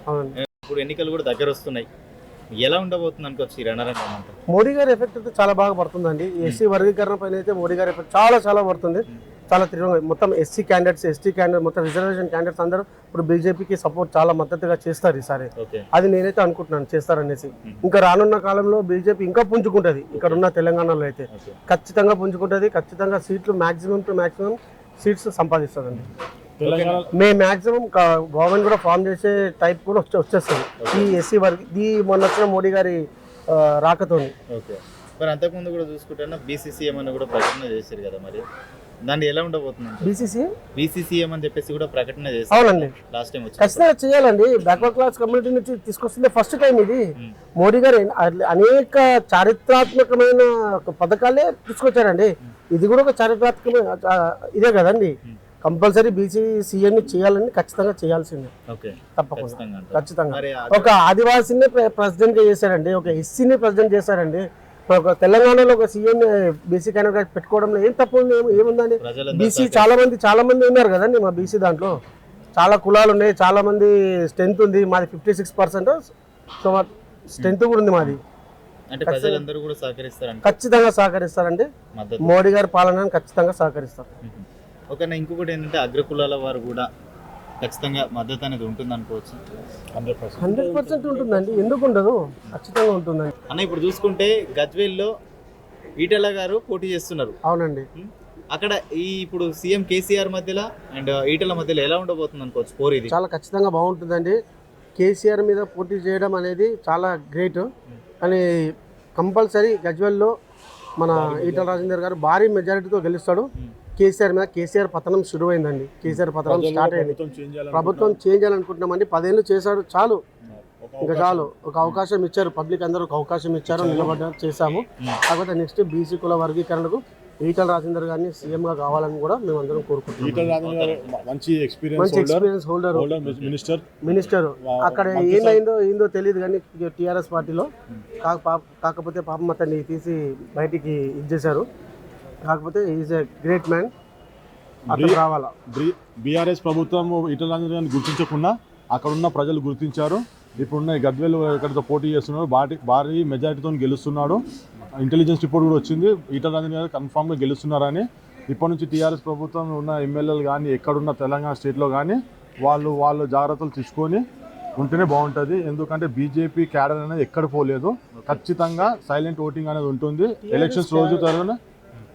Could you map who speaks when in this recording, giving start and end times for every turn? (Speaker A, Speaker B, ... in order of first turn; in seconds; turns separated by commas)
Speaker A: 0.1-0.3, Speaker B: 0.4-1.9, Speaker B: 2.6-4.3, Speaker A: 4.5-26.1, Speaker B: 15.6-15.9, Speaker B: 20.1-20.4, Speaker B: 21.3-21.6, Speaker C: 26.6-27.1, Speaker B: 26.6-27.0, Speaker A: 27.1-34.3, Speaker B: 30.8-31.1, Speaker B: 34.5-38.4, Speaker B: 39.0-40.2, Speaker A: 40.0-40.5, Speaker B: 40.8-43.9, Speaker A: 42.5-42.9, Speaker A: 43.6-47.0, Speaker A: 47.6-58.5, Speaker B: 58.7-60.9, Speaker A: 59.2-72.0, Speaker B: 69.0-69.9, Speaker A: 72.6-76.1, Speaker A: 76.6-78.2, Speaker B: 77.4-78.2, Speaker B: 78.9-80.6, Speaker A: 79.1-79.4, Speaker A: 80.4-81.7, Speaker B: 82.0-82.3, Speaker A: 82.2-84.1, Speaker B: 84.2-86.9, Speaker B: 87.6-89.4, Speaker C: 90.0-91.8, Speaker A: 90.4-93.3, Speaker B: 93.5-95.1, Speaker B: 96.0-97.4, Speaker A: 97.5-97.9, Speaker B: 98.0-103.2, Speaker A: 103.1-104.4, Speaker A: 105.0-107.7, Speaker A: 109.2-110.3, Speaker A: 111.0-117.2, Speaker C: 111.1-111.9, Speaker C: 116.4-118.2, Speaker A: 117.7-120.2, Speaker C: 120.6-121.5, Speaker A: 121.0-130.5, Speaker C: 123.7-124.2, Speaker C: 130.2-135.6, Speaker B: 130.4-131.3, Speaker A: 132.0-133.1, Speaker B: 133.2-133.6, Speaker A: 134.0-137.7, Speaker A: 138.2-141.7, Speaker A: 142.4-143.9, Speaker C: 144.9-154.4, Speaker A: 144.9-145.5, Speaker C: 155.0-164.2, Speaker C: 164.8-171.6, Speaker B: 168.1-168.4, Speaker A: 170.4-171.3